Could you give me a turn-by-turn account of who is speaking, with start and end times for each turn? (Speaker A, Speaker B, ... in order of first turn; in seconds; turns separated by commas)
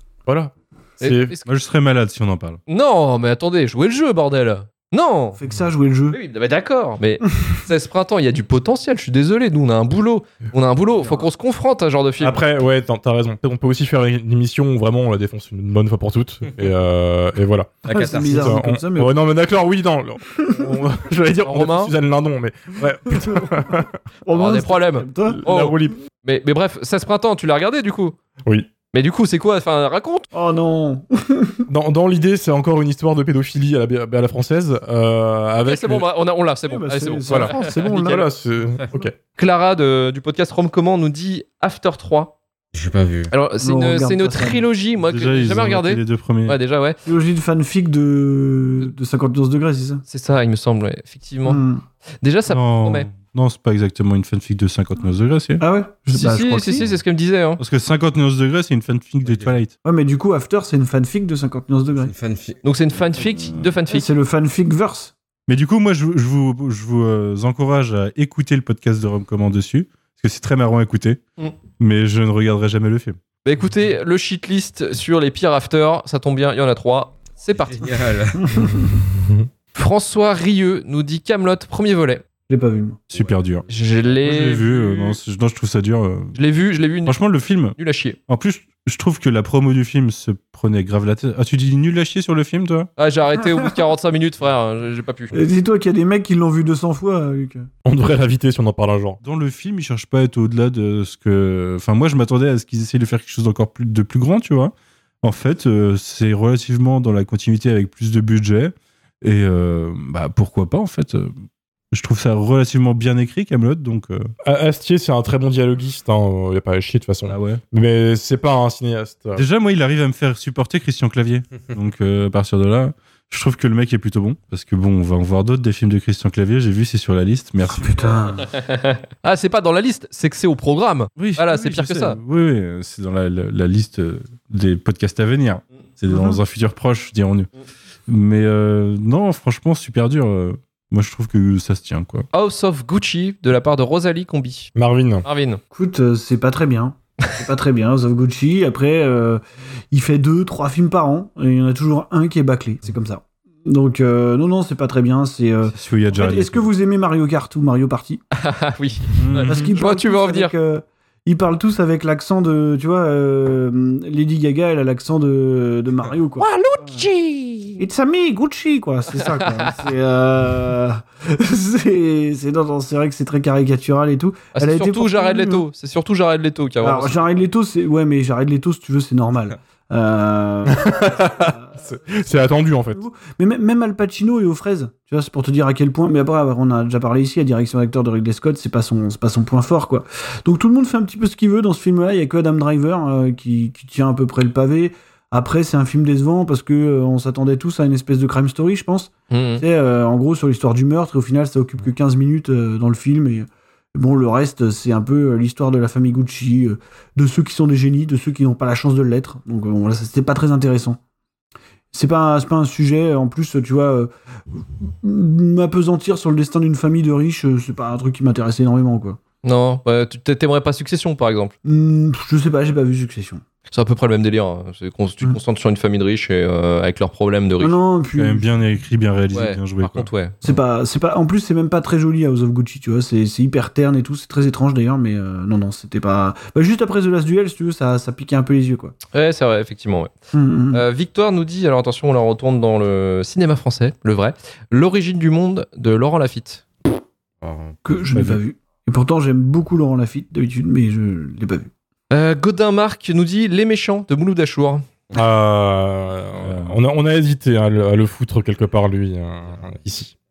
Speaker A: 0.3-1.3, Speaker B: 1.0-1.5, Speaker C: 1.4-2.6, Speaker B: 2.7-5.4, Speaker D: 5.4-6.2, Speaker B: 6.1-12.4, Speaker D: 11.0-11.3, Speaker A: 12.2-23.9, Speaker B: 17.9-18.2, Speaker D: 17.9-19.2, Speaker E: 17.9-18.5, Speaker D: 20.4-20.7, Speaker B: 21.4-21.9, Speaker D: 23.1-25.4, Speaker B: 24.3-28.2, Speaker A: 25.3-26.0, Speaker B: 28.9-30.3, Speaker D: 30.3-31.7, Speaker A: 31.7-36.0, Speaker B: 35.6-38.2, Speaker D: 36.7-38.3, Speaker A: 37.3-39.1, Speaker B: 39.4-42.4, Speaker E: 42.7-43.3, Speaker B: 43.3-47.0, Speaker D: 43.6-44.6, Speaker C: 45.0-46.6, Speaker D: 47.1-50.0, Speaker B: 50.1-51.6, Speaker D: 51.5-51.8, Speaker B: 52.2-53.1, Speaker C: 52.5-55.6, Speaker D: 55.6-56.9, Speaker B: 56.1-57.6, Speaker C: 57.6-59.8, Speaker E: 59.2-59.5, Speaker D: 59.9-62.1, Speaker E: 62.0-62.6, Speaker B: 62.6-64.1, Speaker D: 63.9-65.1, Speaker C: 65.5-71.2, Speaker C: 71.8-73.2, Speaker B: 73.4-78.0, Speaker E: 77.5-78.9, Speaker A: 78.6-79.5, Speaker B: 79.7-82.2, Speaker D: 82.5-83.1, Speaker C: 83.1-83.7, Speaker E: 83.1-83.6, Speaker B: 83.7-85.2, Speaker C: 84.2-86.4, Speaker B: 86.4-87.2, Speaker C: 87.1-87.8, Speaker B: 87.8-88.2, Speaker C: 88.3-92.9, Speaker B: 93.0-95.4, Speaker D: 95.3-97.7, Speaker A: 97.8-99.2, Speaker C: 99.2-111.3, Speaker C: 111.9-114.3, Speaker A: 114.5-119.4, Speaker C: 117.3-117.6, Speaker C: 119.3-128.2, Speaker D: 127.7-128.5, Speaker B: 128.5-132.2, Speaker C: 131.2-137.5, Speaker D: 136.1-136.4, Speaker C: 138.1-142.3, Speaker B: 142.3-144.7, Speaker A: 144.8-145.3, Speaker B: 145.2-145.6, Speaker D: 145.7-158.2, Speaker C: 155.7-156.6, Speaker B: 158.3-160.5, Speaker C: 159.2-159.7, Speaker D: 159.5-167.0, Speaker B: 166.4-167.8, Speaker D: 167.8-175.7, Speaker B: 169.2-169.8, Speaker B: 174.6-177.3, Speaker D: 176.8-211.0, Speaker A: 180.7-183.0, Speaker B: 199.3-199.6, Speaker D: 211.9-219.2, Speaker B: 219.4-221.5, Speaker D: 221.7-223.4, Speaker B: 223.7-227.8, Speaker D: 227.6-228.5, Speaker C: 228.2-230.1, Speaker B: 229.3-230.4, Speaker D: 230.4-238.9, Speaker B: 239.1-240.1, Speaker D: 240.3-240.8, Speaker B: 240.7-246.6, Speaker E: 247.4-247.8, Speaker D: 247.8-251.7, Speaker C: 248.1-248.4, Speaker B: 252.1-254.9, Speaker A: 255.1-260.1, Speaker C: 256.4-256.8